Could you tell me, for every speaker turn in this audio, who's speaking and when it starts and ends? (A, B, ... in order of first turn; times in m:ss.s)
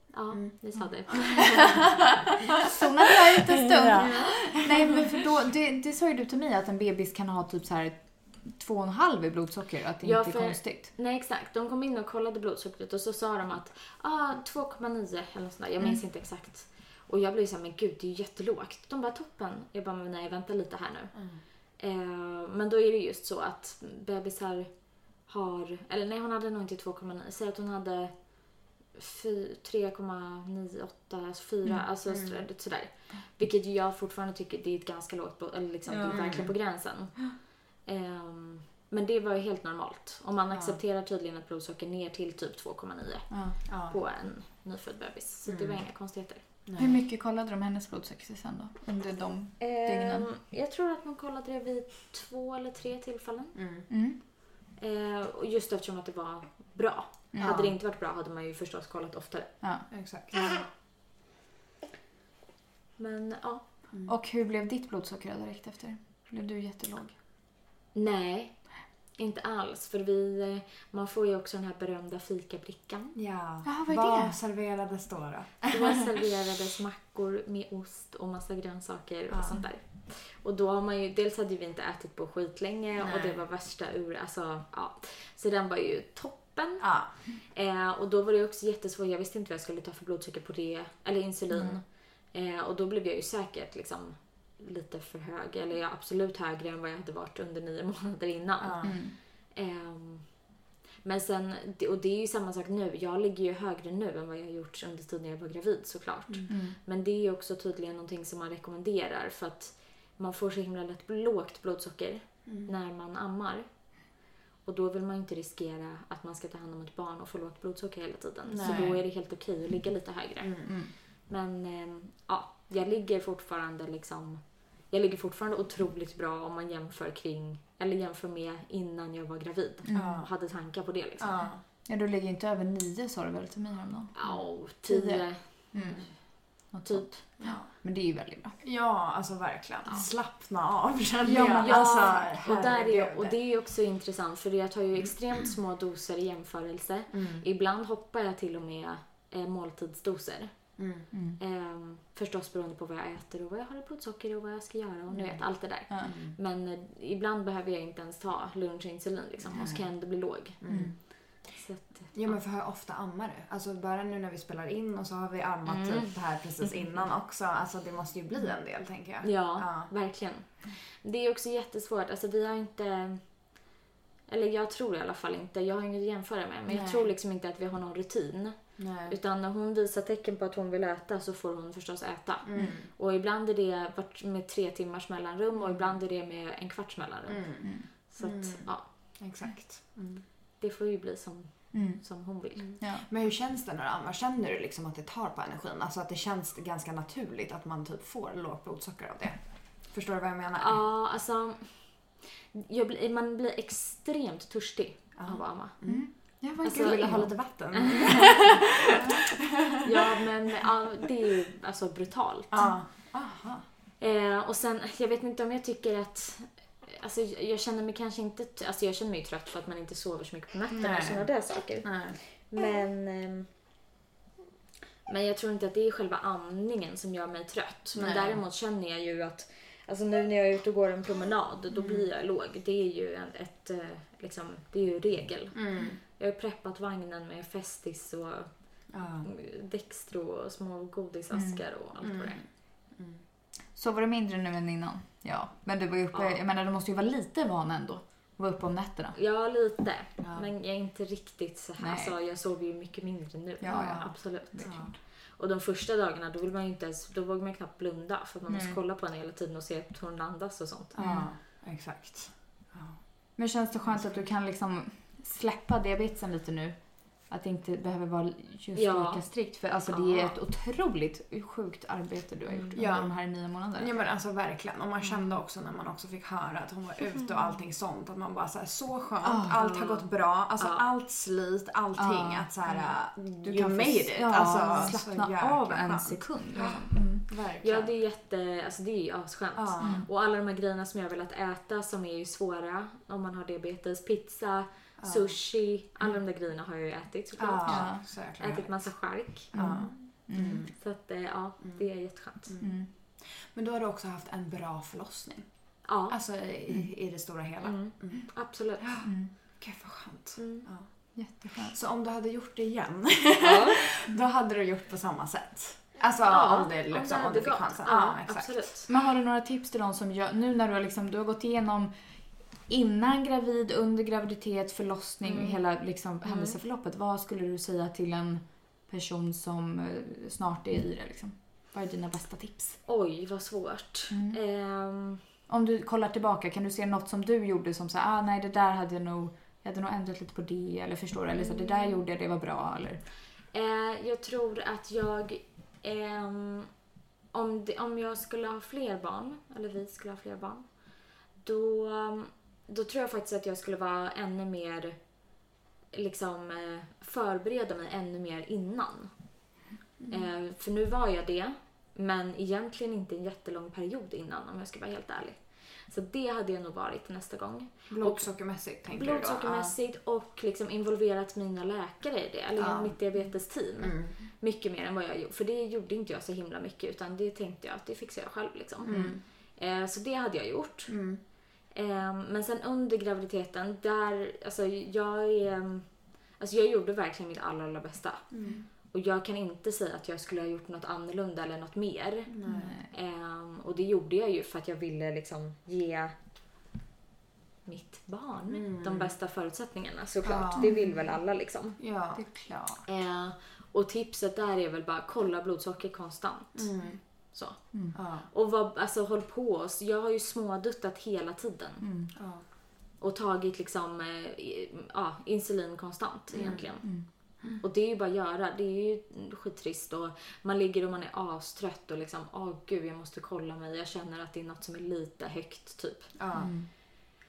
0:00.1-0:02.1 A
0:02.6-0:10.9 B
0:03.4-0:05.0 C
0:03.9-0:04.6 A
0:10.0-0:21.1 A
0:21.1-0:21.4 C
0:21.8-0:24.7 A
0:25.3-0:28.1 A
0:29.0-0:37.2 A
0:32.1-0:32.4 C
0:35.9-0:36.4 B
0:36.1-0:36.5 C
0:37.9-0:46.4 A
0:40.5-0:40.8 C
0:43.3-0:43.6 B
0:43.7-0:44.0 C
0:45.5-0:45.8 C
0:46.7-0:47.0 C
0:46.8-0:50.3 B
0:49.6-0:53.6 A
0:53.6-0:53.9 C
0:53.9-0:54.2 B
0:54.8-0:59.6 A
0:57.3-0:57.6 B
0:57.4-0:57.8 C
0:59.6-0:59.9 B
0:59.9-1:00.4 C
1:03.0-1:03.6 A
1:04.1-1:07.2 B
1:07.9-1:08.6 A
1:09.2-1:13.2 A
1:13.2-1:16.0 C
1:13.6-1:14.4 B
1:15.7-1:26.9 A
1:19.3-1:19.6 C
1:23.0-1:23.4 C
1:26.8-1:27.1 C
1:27.4-1:38.9 A
1:31.5-1:31.8 B
1:38.6-1:39.0 C
1:38.8-1:39.2 B
1:39.5-1:40.3 A
1:41.0-1:53.7 A
1:46.3-1:46.6 C
1:46.5-1:46.8 B
1:54.6-2:00.8 A
1:58.5-1:59.0 C
1:58.6-1:59.0 B
2:00.4-2:00.7 C
2:00.7-2:00.9 B
2:01.3-2:11.5 A
2:09.8-2:10.2 B
2:09.9-2:10.3 C
2:11.2-2:11.6 C
2:11.9-2:14.1 B
2:14.1-2:15.4 A
2:14.8-2:16.1 B
2:15.8-2:16.1 C
2:16.7-2:18.6 B
2:16.8-2:17.2 A
2:17.4-2:17.7 C
2:18.6-2:23.4 C
2:21.2-2:22.3 B
2:21.6-2:30.6 A
2:27.1-2:27.5 C
2:30.8-2:31.1 C
2:31.1-2:31.4 B
2:31.4-2:40.6 A
2:35.1-2:35.4 C
2:35.9-2:36.2 B
2:36.0-2:36.4 C
2:39.5-2:39.9 C
2:40.6-2:41.0 C
2:40.7-2:41.0 B
2:41.5-2:42.4 A
2:42.1-2:49.9 C
2:45.7-2:47.0 A
2:49.2-2:53.2 A
2:54.3-3:09.2 A
2:56.7-2:57.1 C
2:58.8-2:59.2 C
3:02.4-3:02.9 C
3:05.6-3:05.9 C
3:07.3-3:10.2 C
3:07.6-3:07.9 B
3:10.6-3:12.8 A
3:11.7-3:12.0 B
3:12.7-3:20.8 C
3:12.8-3:13.1 B
3:20.6-3:21.9 A
3:22.5-3:25.8 A
3:25.2-3:26.1 C
3:25.9-3:27.3 B
3:26.6-3:30.2 C
3:26.6-3:29.2 A
3:29.8-3:32.7 A
3:32.5-3:33.6 C
3:34.0-3:43.5 A
3:40.7-3:41.3 C
3:41.8-3:42.2 C
3:45.1-3:58.5 A
3:48.0-3:48.4 C
3:51.7-3:52.1 C
3:55.5-3:56.0 C
3:58.9-3:59.3 C
3:59.2-4:02.4 A
4:01.3-4:01.6 B
4:02.0-4:02.4 C
4:03.0-4:03.2 C
4:03.8-4:09.2 B
4:06.1-4:06.4 A
4:09.2-4:14.8 A
4:10.2-4:10.5 C
4:11.8-4:12.2 B
4:13.6-4:14.9 B
4:13.7-4:14.9 C
4:15.4-4:21.0 A
4:18.5-4:18.8 B
4:20.9-4:23.0 C
4:21.0-4:21.3 B
4:23.4-4:26.8 B
4:27.3-4:33.9 B
4:28.8-4:29.2 A
4:29.9-4:30.3 A
4:32.5-4:32.8 A
4:32.7-4:33.2 C
4:33.8-4:47.9 C
4:39.2-4:39.6 B
4:39.6-4:40.9 A
4:42.0-4:42.9 B
4:43.4-4:47.2 B
4:47.6-4:59.9 A
4:49.6-4:50.1 C
4:49.8-4:50.1 B
4:55.0-4:55.4 C
4:57.4-4:58.9 C
4:57.6-4:58.0 B
4:59.5-5:00.7 B
4:59.5-5:00.7 C
5:00.7-5:02.6 A
5:02.6-5:02.9 B
5:03.4-5:05.4 C
5:05.9-5:06.2 A
5:06.1-5:08.2 C
5:07.6-5:09.0 A
5:08.8-5:09.1 C
5:09.0-5:09.3 B
5:09.6-5:10.9 C
5:10.4-5:10.7 A
5:11.2-5:11.8 B
5:11.7-5:18.5 C
5:13.4-5:13.8 A
5:16.3-5:18.9 A
5:18.9-5:21.9 B
5:22.7-5:32.8 B
5:25.2-5:25.6 A
5:26.2-5:26.6 A
5:32.9-5:35.2 A
5:34.1-5:34.4 B
5:35.5-5:43.0 B
5:41.4-5:42.0 A
5:43.5-5:46.7 A
5:47.3-5:50.7 A
5:51.4-5:55.0 A
5:55.9-5:59.1 A
6:00.1-6:08.3 A
6:07.9-6:09.7 C
6:08.9-6:20.9 A
6:12.6-6:13.0 C
6:13.8-6:14.1 C
6:18.8-6:19.2 C
6:20.9-6:21.2 C
6:21.7-6:25.9 A
6:26.4-6:28.3 A
6:28.3-6:28.7 C
6:28.9-6:32.4 A
6:32.3-6:32.7 C
6:32.5-6:32.9 B
6:32.9-6:36.1 A
6:37.6-6:41.8 A
6:38.5-6:39.1 C
6:40.2-6:40.8 C
6:40.6-6:41.0 B
6:41.8-6:42.8 C
6:42.2-6:42.6 B
6:42.9-6:46.7 A
6:46.6-6:47.0 C
6:47.3-6:47.7 A
6:47.9-6:48.3 C
6:48.3-6:51.8 A
6:51.8-6:52.1 B
6:52.2-6:52.4 C
6:53.0-6:56.9 A
6:56.3-6:56.7 C
6:57.6-7:06.1 A
7:06.2-7:06.5 C
7:06.3-7:06.7 B